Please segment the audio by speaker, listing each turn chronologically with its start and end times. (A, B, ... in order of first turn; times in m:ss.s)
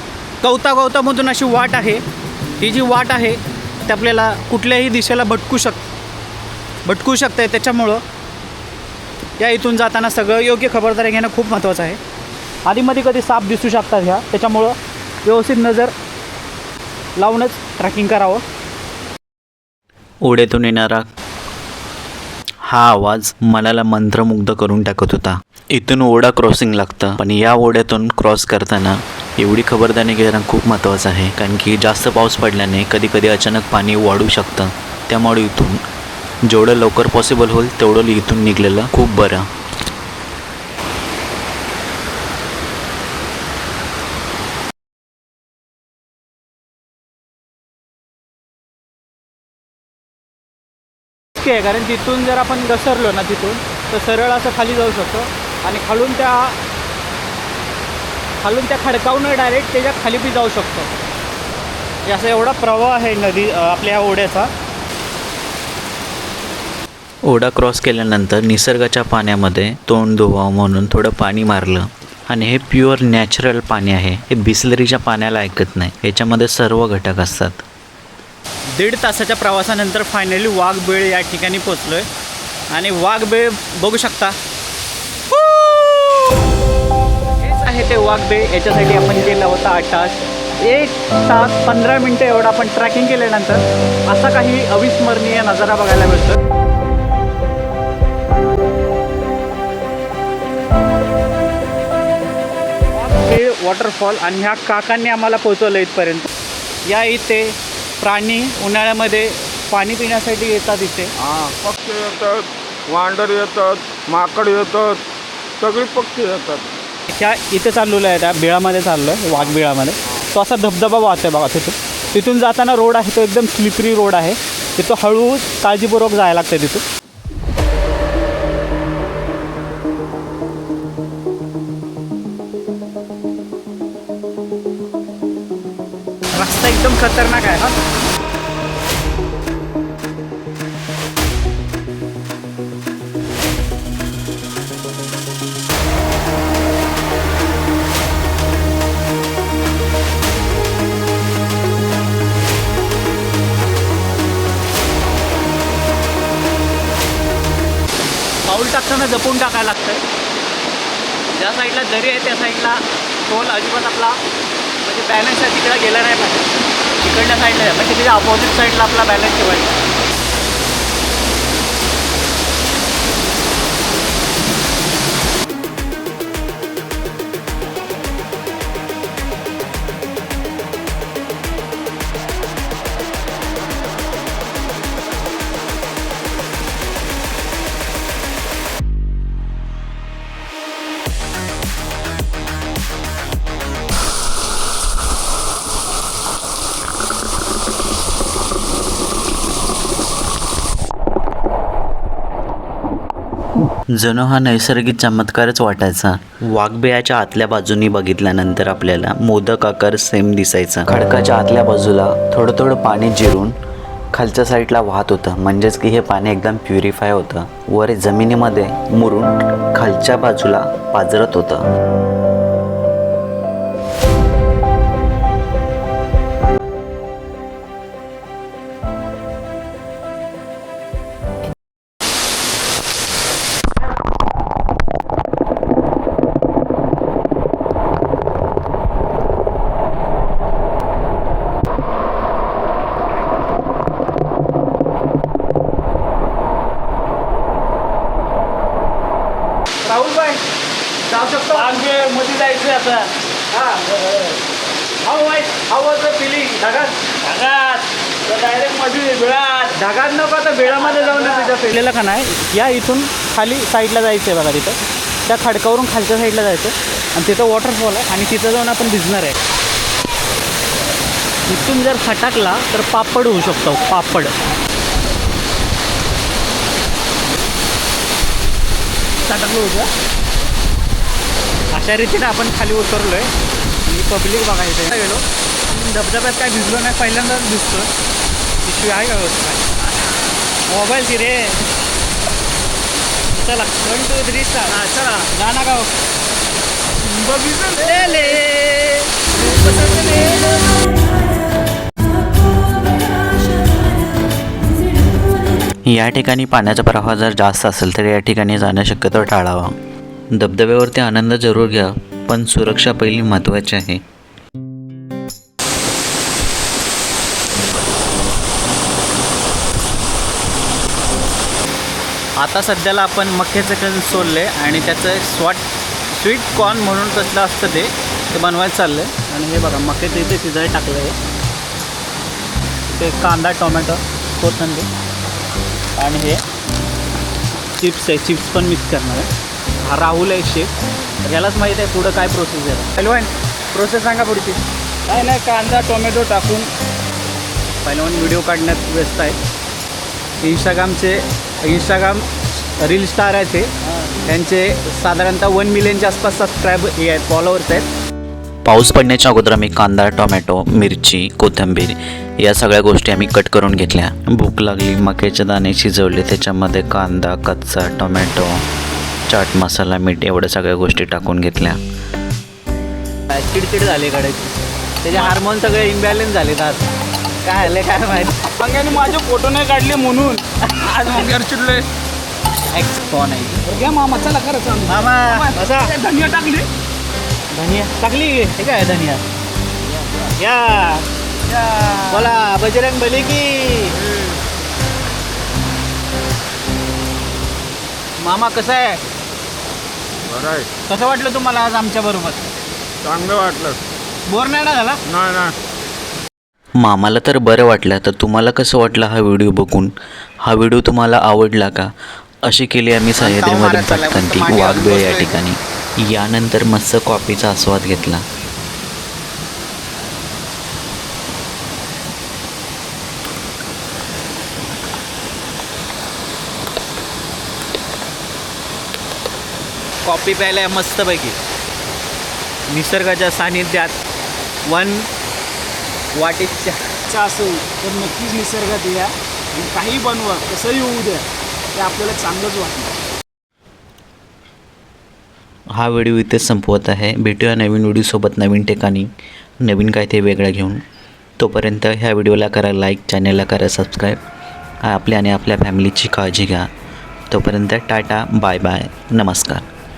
0:00.4-0:02.0 A
0:02.6-0:05.9 A
0:06.8-0:08.0 A
0:09.4-0:12.0 A
0:12.6-0:15.9 A
0:17.2-0:18.4 A
0:20.2-0:21.0 B
0:22.6-0:35.8 B
0:36.4-0:39.5 B
0:51.3-0:56.6 A
0:58.4-1:00.9 A
1:02.0-1:04.5 A
1:07.2-1:17.6 B
1:18.7-1:22.1 A
1:22.7-1:24.4 A
1:25.3-1:26.4 A
1:27.3-1:36.4 A
1:42.9-1:46.3 A
1:46.8-1:51.1 A
1:51.2-1:55.0 C
1:55.6-1:56.7 C
1:57.1-2:06.8 A
2:16.3-2:17.8 A
2:38.4-2:40.0 A
2:41.3-2:44.2 A
2:44.8-2:49.8 A
3:23.9-3:33.6 B
3:34.1-3:41.6 B
4:09.8-4:10.4 A
4:11.0-4:11.8 A
4:11.5-4:13.1 D
4:13.5-4:13.8 A
4:15.0-4:17.1 A
4:17.2-4:19.7 D
4:19.7-4:29.4 A
4:31.5-4:34.3 A
4:39.2-4:39.9 A
4:41.7-4:43.3 A
4:43.8-4:47.9 A
4:48.6-4:49.9 A
4:50.7-4:51.6 A
4:53.3-4:55.9 A
4:57.1-5:01.0 A
5:05.8-5:09.7 B
5:10.3-5:14.0 B
5:22.4-5:31.2 A
5:32.9-5:34.9 A
5:36.0-5:36.4 A
5:37.8-5:39.3 A
5:39.8-5:44.6 A
5:45.0-5:46.7 D
5:47.8-5:49.4 A
5:50.4-5:57.9 A
5:58.6-6:08.6 B
6:09.3-6:11.8 B
6:13.3-6:18.5 A
6:18.5-6:21.9 D
6:20.6-6:21.4 A
6:22.7-6:23.7 A
6:23.6-6:26.7 D
6:24.9-6:26.0 A
6:27.5-6:29.2 A
6:30.2-6:31.0 A
6:31.5-6:31.9 D
6:31.9-6:34.0 A
6:33.9-6:34.4 C
6:38.2-6:39.0 A
6:40.3-6:40.7 C
6:40.9-6:42.4 A
6:43.0-6:43.8 C
6:44.3-6:45.0 A
6:45.0-6:45.6 C
6:46.8-6:49.9 B
6:50.4-6:51.9 B
6:52.4-6:58.2 B
6:53.2-6:55.4 A
7:10.0-7:11.4 A
7:12.7-7:14.0 A
7:14.6-7:15.1 A
7:16.1-7:16.9 A
7:17.0-7:22.9 D
7:25.7-7:29.1 B
7:29.6-7:30.8 B
7:31.4-7:34.2 B
7:34.8-7:36.7 B
7:37.3-7:39.6 B